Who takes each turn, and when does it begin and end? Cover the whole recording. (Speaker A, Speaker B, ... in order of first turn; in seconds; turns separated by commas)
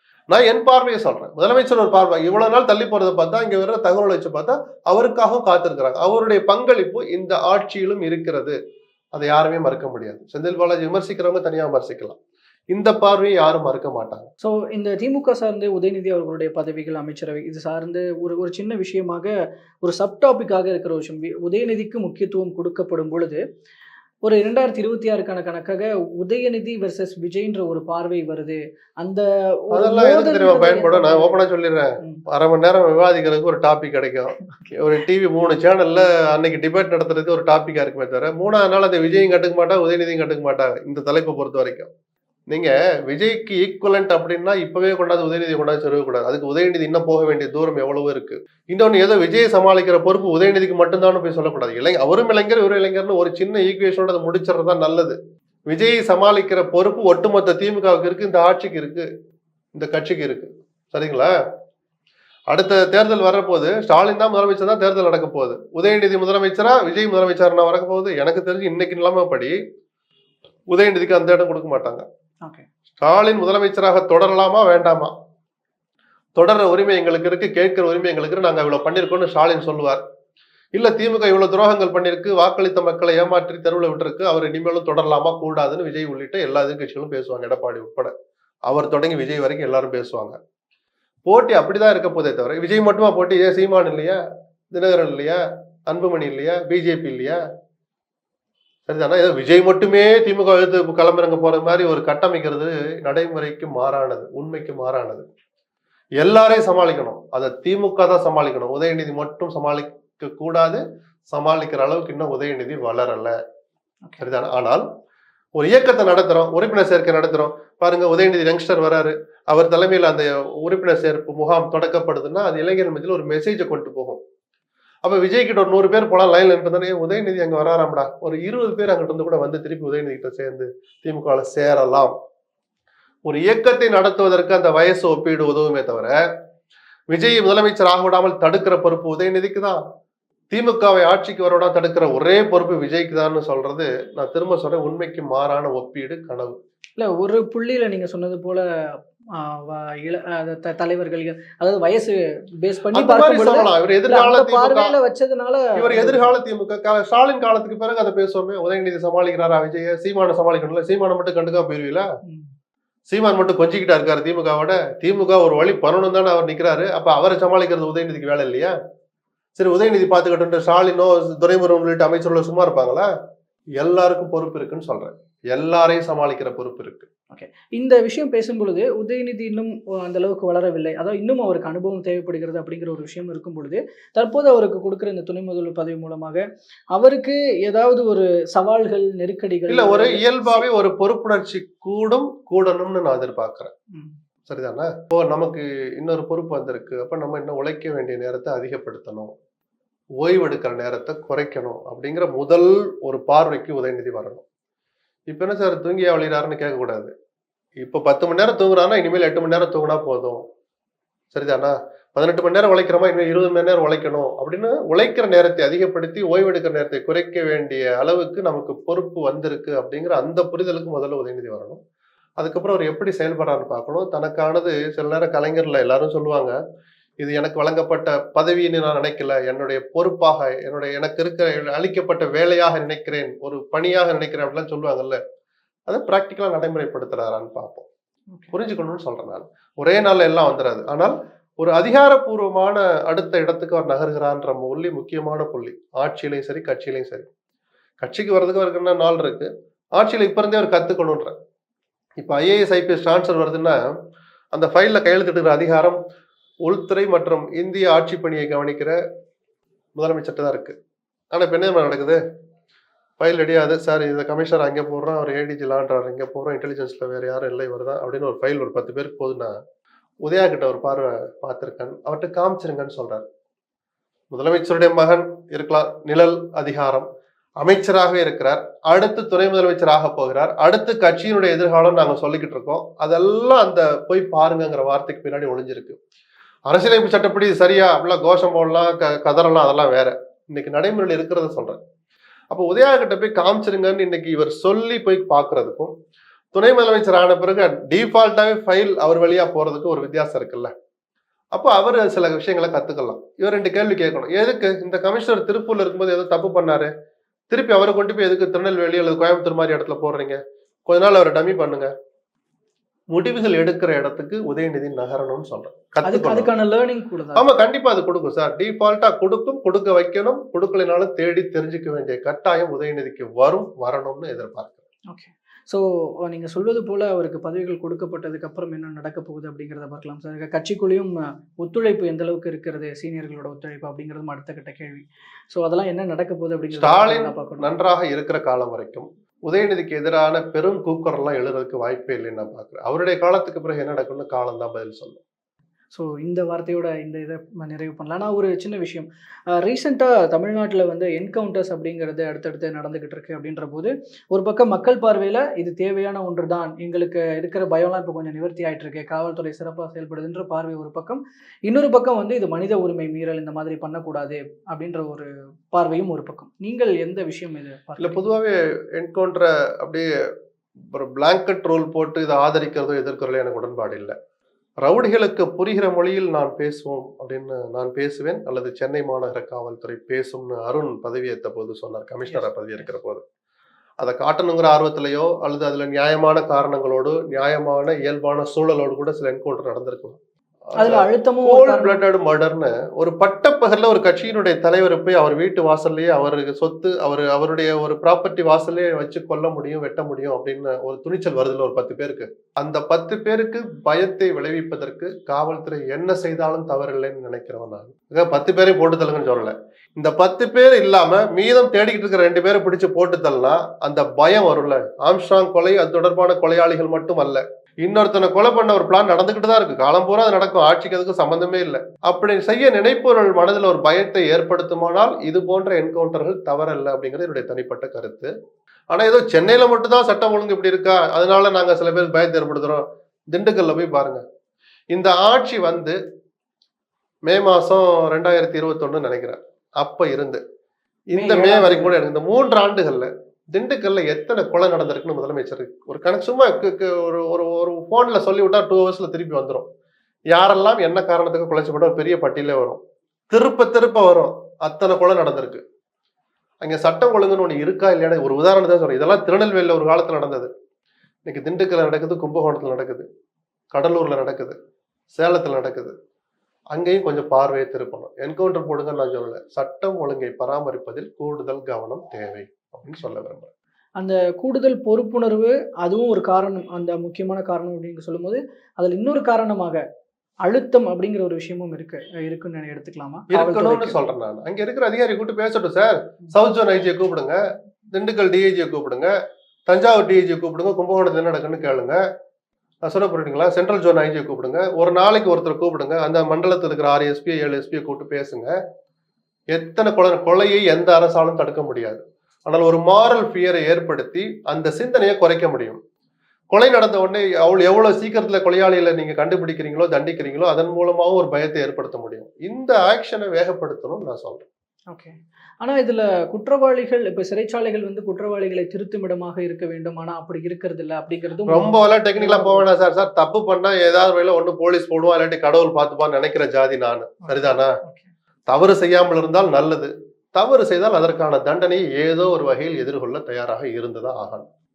Speaker A: 0.3-8.6, Speaker A: 9.1-12.2, Speaker A: 12.7-14.3, Speaker B: 14.4-19.3, Speaker B: 19.8-23.4, Speaker B: 24.2-31.4, Speaker A: 29.7-41.9, Speaker A: 42.5-55.2, Speaker A: 55.7-59.1, Speaker A: 59.8-61.3, Speaker A: 62.5-69.5, Speaker A: 70.7-72.0, Speaker A: 73.0-75.1, Speaker A: 76.4-80.0, Speaker A: 80.8-88.1, Speaker A: 88.7-90.4, Speaker A: 91.3-94.2, Speaker A: 94.7-97.4, Speaker A: 98.9-105.2, Speaker A: 106.2-113.4, Speaker A: 114.2-114.8, Speaker A: 115.6-124.2, Speaker A: 125.0-132.1, Speaker A: 133.3-136.1, Speaker A: 137.1-139.8, Speaker A: 140.5-146.6, Speaker B: 147.0-148.6, Speaker B: 149.4-156.3, Speaker A: 152.9-154.9, Speaker A: 155.8-162.1, Speaker B: 162.3-162.5, Speaker A: 163.1-168.7, Speaker A: 169.6-173.1, Speaker A: 173.8-177.1, Speaker B: 177.3-186.4, Speaker B: 186.9-190.7, Speaker A: 189.7-193.7, Speaker A: 194.5-199.3, Speaker A: 200.2-204.4, Speaker A: 205.3-207.1, Speaker A: 207.8-210.4, Speaker A: 211.3-221.8, Speaker A: 222.4-226.6, Speaker A: 227.2-235.2, Speaker A: 235.9-237.9, Speaker A: 238.5-247.3, Speaker A: 248.0-251.3, Speaker A: 252.2-253.8, Speaker A: 254.5-256.0, Speaker A: 256.6-259.0, Speaker A: 260.0-260.8, Speaker A: 261.3-262.2, Speaker A: 263.2-269.6, Speaker A: 270.2-273.2, Speaker A: 274.3-277.1, Speaker A: 277.6-286.0, Speaker A: 286.7-291.8, Speaker A: 292.5-295.9, Speaker A: 296.5-300.7, Speaker A: 301.5-306.9, Speaker A: 307.5-311.9, Speaker A: 313.1-316.5, Speaker B: 316.1-317.5, Speaker A: 317.4-324.8, Speaker B: 325.1-337.7, Speaker A: 336.7-345.2, Speaker B: 345.9-349.1, Speaker B: 349.6-368.2, Speaker A: 368.0-370.1, Speaker A: 370.9-374.1, Speaker A: 374.8-383.2, Speaker B: 382.2-382.9, Speaker A: 384.0-390.2, Speaker A: 390.7-428.3, Speaker B: 390.8-392.0, Speaker A: 428.9-434.2, Speaker A: 434.9-436.0, Speaker A: 437.3-440.4, Speaker A: 441.1-449.7, Speaker B: 441.1-442.0, Speaker A: 450.3-452.8, Speaker A: 453.3-455.6, Speaker A: 456.6-460.5, Speaker A: 461.3-463.1, Speaker A: 463.7-464.6, Speaker A: 465.1-465.9, Speaker A: 466.7-473.5, Speaker B: 474.0-479.8, Speaker B: 480.5-484.0, Speaker A: 483.3-487.4, Speaker A: 487.9-489.1, Speaker A: 489.7-492.0, Speaker A: 492.9-498.5, Speaker A: 499.5-505.8, Speaker A: 506.5-514.5, Speaker B: 514.9-522.7, Speaker A: 521.5-527.7, Speaker B: 527.2-528.1, Speaker A: 528.5-534.5